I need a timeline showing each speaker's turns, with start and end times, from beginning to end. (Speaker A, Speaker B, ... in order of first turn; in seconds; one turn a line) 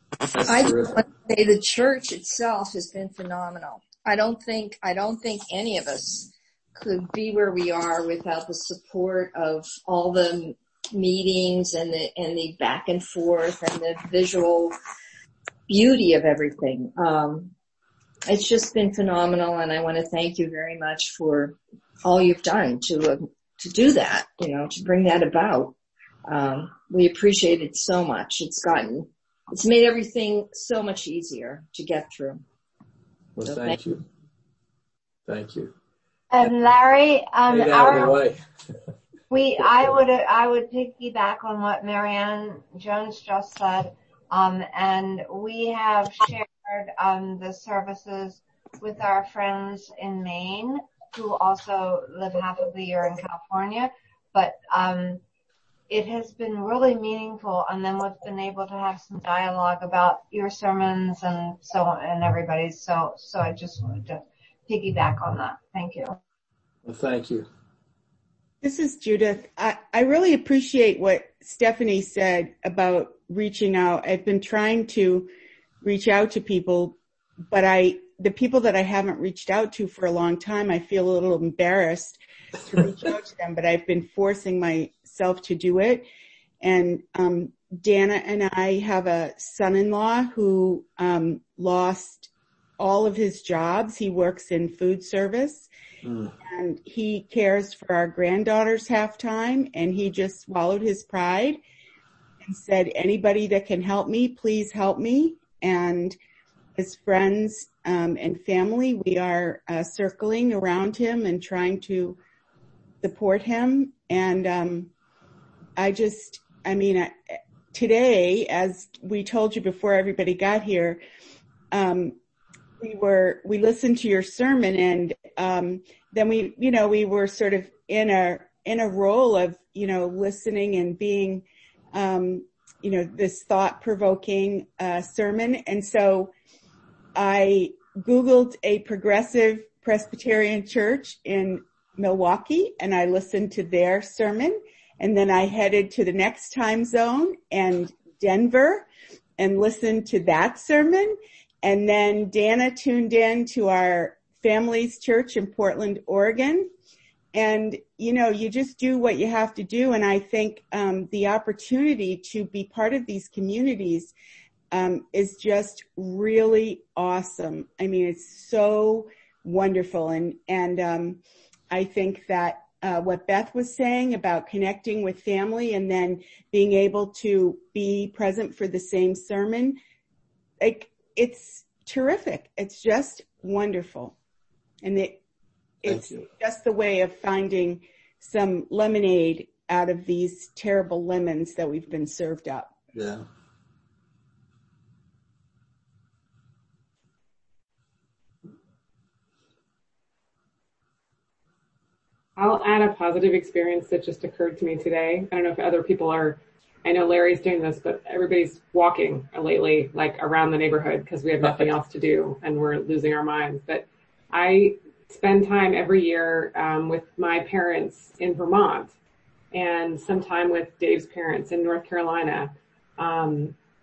Speaker A: 0.3-1.0
Speaker B: 0.5-14.7
Speaker B: 15.7-17.5
Speaker B: 18.3-25.8
Speaker B: 26.3-32.4
Speaker A: 33.4-34.0
Speaker B: 33.4-33.8
Speaker A: 35.3-35.7
Speaker C: 36.3-38.2
Speaker A: 37.5-38.4
Speaker C: 39.3-55.2
Speaker C: 55.9-66.2
Speaker A: 66.8-67.5
Speaker D: 68.6-75.3
Speaker D: 75.8-77.0
Speaker D: 77.5-86.0
Speaker D: 86.6-95.7
Speaker A: 96.0-96.3
Speaker D: 96.4-101.6
Speaker D: 102.4-106.2
Speaker D: 106.8-112.2
Speaker D: 113.0-114.9
Speaker D: 115.8-117.1
Speaker D: 117.7-121.0
Speaker D: 121.7-122.2
Speaker D: 122.8-136.3
Speaker D: 137.1-148.8
Speaker D: 149.4-156.7
Speaker D: 157.3-164.1
Speaker D: 164.7-179.8
Speaker D: 180.6-184.2
Speaker D: 184.8-185.2
Speaker D: 185.8-192.7
Speaker A: 185.8-186.2
Speaker A: 192.9-193.2
Speaker E: 202.4-218.9
Speaker E: 219.5-223.5